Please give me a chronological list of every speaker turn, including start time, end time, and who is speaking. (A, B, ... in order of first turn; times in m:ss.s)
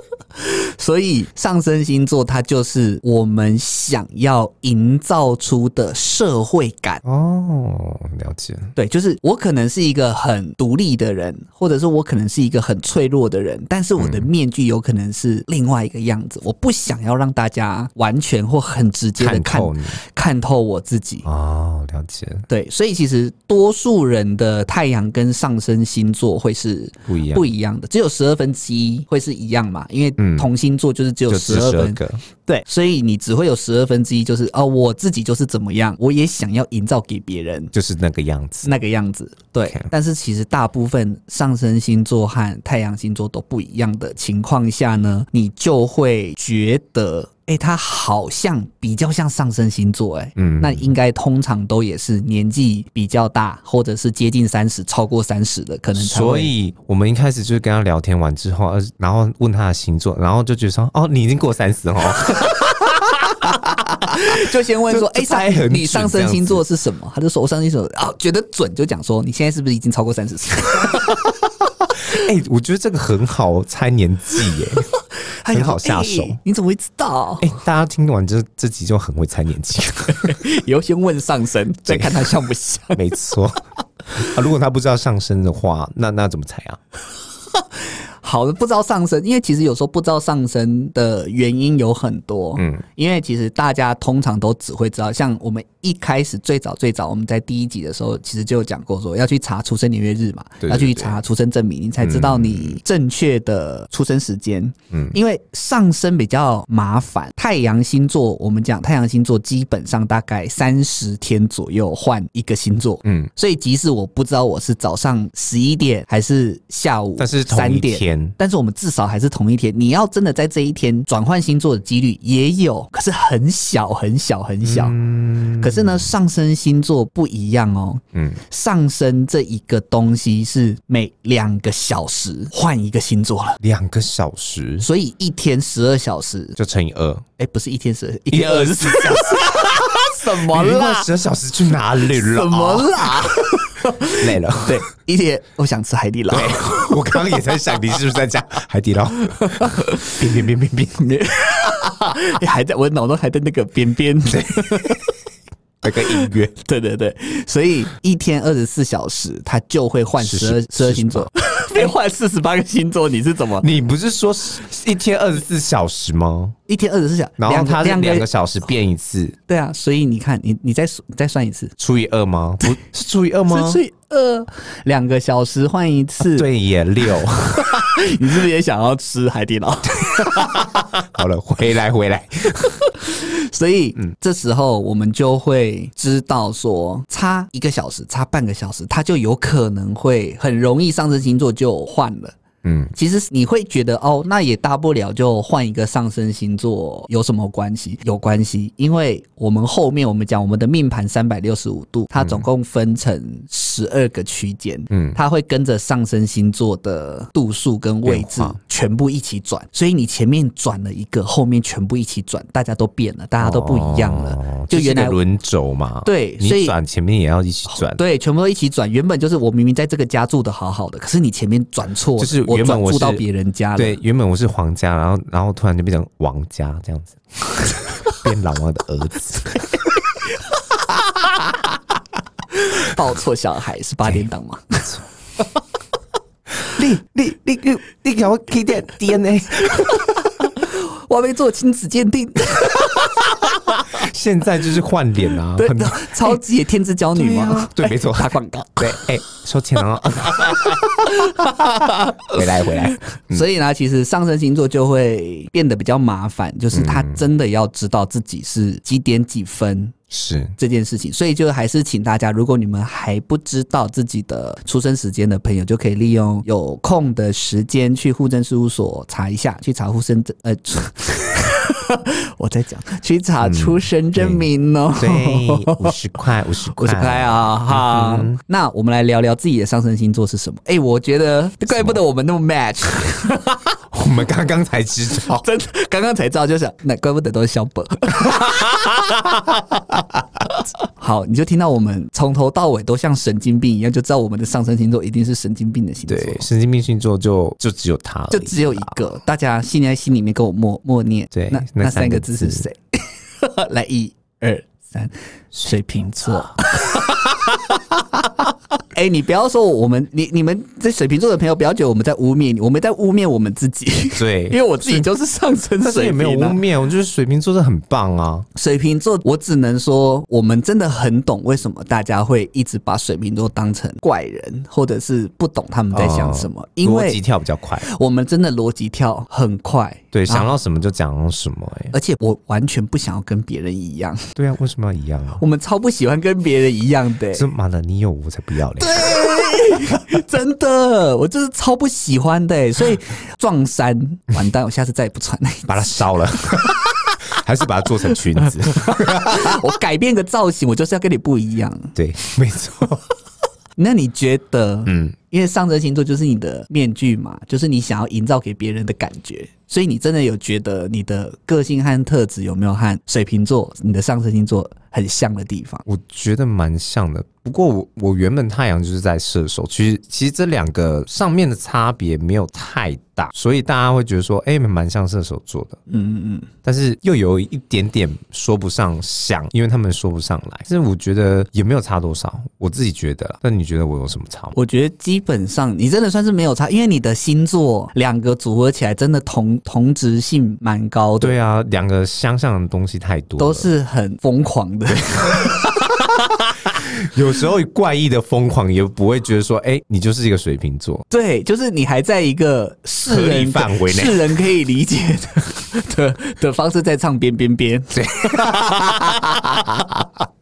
0:00.4-0:07.0 A
0:07.0-0:08.8 B
0:08.8-0:21.3 A
0:14.0-0:14.3 B
0:19.2-0:20.0 B
0:21.2-0:22.5 B
0:22.5-0:37.7 A
0:27.1-0:27.5 B
0:30.2-0:30.5 B
0:31.3-0:32.2 B
0:37.7-0:38.7 B
0:38.6-0:56.5 A
0:50.4-0:50.9 B
0:56.0-1:06.6 B
1:04.0-1:11.3 A
1:12.0-1:14.9 B
1:15.0-1:17.5 A
1:15.5-1:16.4 B
1:17.4-1:20.4 B
1:20.1-1:23.0 A
1:21.9-1:22.3 B
1:22.9-1:23.6 B
1:24.1-1:26.8 B
1:27.5-2:05.0 A
1:32.6-1:32.8 B
1:40.6-1:41.2 B
1:42.0-1:42.8 B
1:53.0-1:53.3 B
1:57.2-1:58.4 B
2:04.6-2:06.1 B
2:05.6-2:13.6 A
2:08.1-2:08.4 B
2:13.6-2:14.9 B
2:14.8-2:16.6 A
2:16.6-2:17.2 B
2:17.4-2:21.1 A
2:18.3-2:23.4 B
2:22.0-2:27.4 A
2:24.2-2:24.8 B
2:26.3-2:31.2 B
2:29.3-2:30.2 A
2:31.0-2:35.1 A
2:34.3-2:35.0 B
2:35.8-2:36.6 B
2:35.9-2:43.7 A
2:40.2-2:41.3 B
2:43.6-2:46.6 B
2:46.7-2:48.3 A
2:47.4-2:49.4 B
2:49.5-2:51.8 A
2:51.8-2:53.8 B
2:53.5-2:56.5 A
2:56.2-2:58.2 B
2:57.5-3:00.8 A
3:00.2-3:02.8 B
3:02.6-3:12.4 A
3:12.6-3:12.9 B
3:12.9-3:35.2 A
3:22.2-3:22.4 B
3:24.9-3:25.2 B
3:28.0-3:28.6 B
3:33.4-3:38.0 B
3:36.0-3:36.8 A
3:37.7-3:44.0 A
3:42.2-3:43.2 B
3:43.8-3:49.9 B
3:50.4-3:51.4 A
3:52.5-3:55.4 A
3:56.7-4:00.3 B
3:59.7-4:04.0 A
4:03.8-4:06.4 B
4:05.6-4:09.1 A
4:07.2-4:13.5 B
4:10.4-4:12.4 A
4:13.3-4:20.0 A
4:16.7-4:17.2 B
4:20.1-4:20.5 B
4:20.6-4:36.0 A
4:33.4-4:38.4 B
4:36.7-4:43.7 A
4:41.7-4:42.0 B
4:43.9-4:45.4 B
4:45.3-4:49.2 A
4:51.0-4:56.5 A
4:56.1-4:59.0 B
4:58.3-5:08.3 A
5:01.3-5:02.7 B
5:05.6-5:06.5 B
5:08.9-5:16.6 A
5:14.2-5:15.1 B
5:15.8-5:18.5 B
5:18.6-5:27.2 A
5:25.9-5:27.9 B
5:27.8-5:30.5 A
5:30.1-5:32.0 B
5:31.9-5:34.3 A
5:34.4-5:35.4 B
5:35.4-5:37.5 A
5:37.3-5:40.2 B
5:38.8-5:47.2 A
5:45.7-5:49.6 B
5:48.1-5:52.0 A
5:52.0-5:53.0 B
5:53.8-6:05.9 A
5:54.9-5:55.2 B
6:05.9-6:15.8 B
6:15.9-6:16.5 A
6:16.6-6:24.6 B
6:24.5-6:31.4 A
6:31.2-6:33.7 B
6:33.4-6:36.4 A
6:35.3-6:35.6 B
6:36.6-6:41.0 B
6:41.1-6:49.7 A
6:43.1-6:44.4 B
6:47.9-6:50.0 B